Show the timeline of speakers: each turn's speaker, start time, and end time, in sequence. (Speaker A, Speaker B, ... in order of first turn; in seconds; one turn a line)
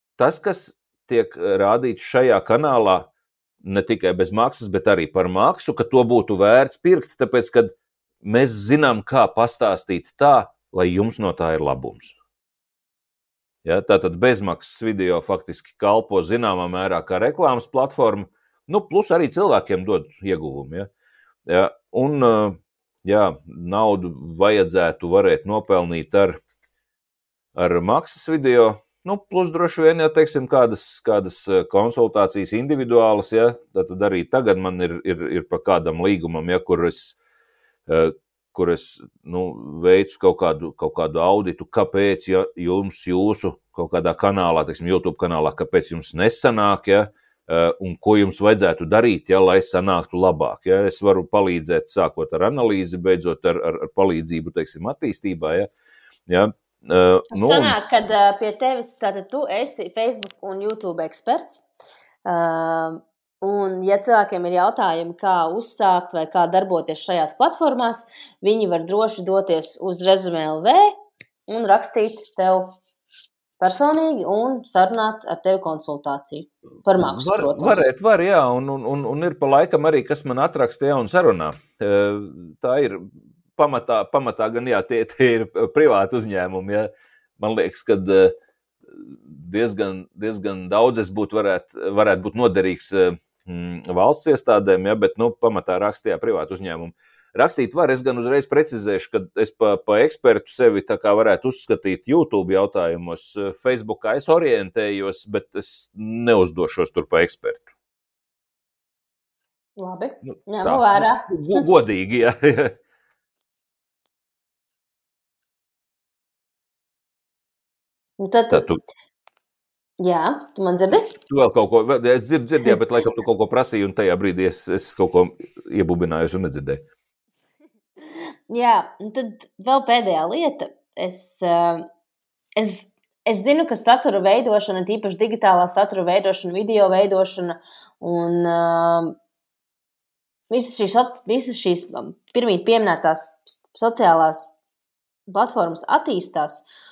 Speaker A: 0.2-3.1
Speaker A: 3.6-12.2
Speaker A: 13.6-20.9
Speaker A: 21.5-26.4
Speaker A: 27.6-37.2
Speaker A: 37.9-55.7
Speaker A: 56.3-57.8
Speaker B: 57.3-61.6
Speaker B: 62.2-70.9
Speaker B: 71.5-72.8
Speaker B: 73.6-77.9
Speaker A: 77.0-88.3
Speaker A: 88.9-107.7
Speaker B: 109.8-111.7
Speaker A: 110.2-112.8
Speaker B: 118.2-118.7
Speaker A: 118.5-118.8
Speaker B: 120.0-121.2
Speaker A: 121.3-126.8
Speaker B: 128.5-131.9
Speaker B: 132.6-139.2
Speaker B: 140.5-144.5
Speaker B: 145.3-146.7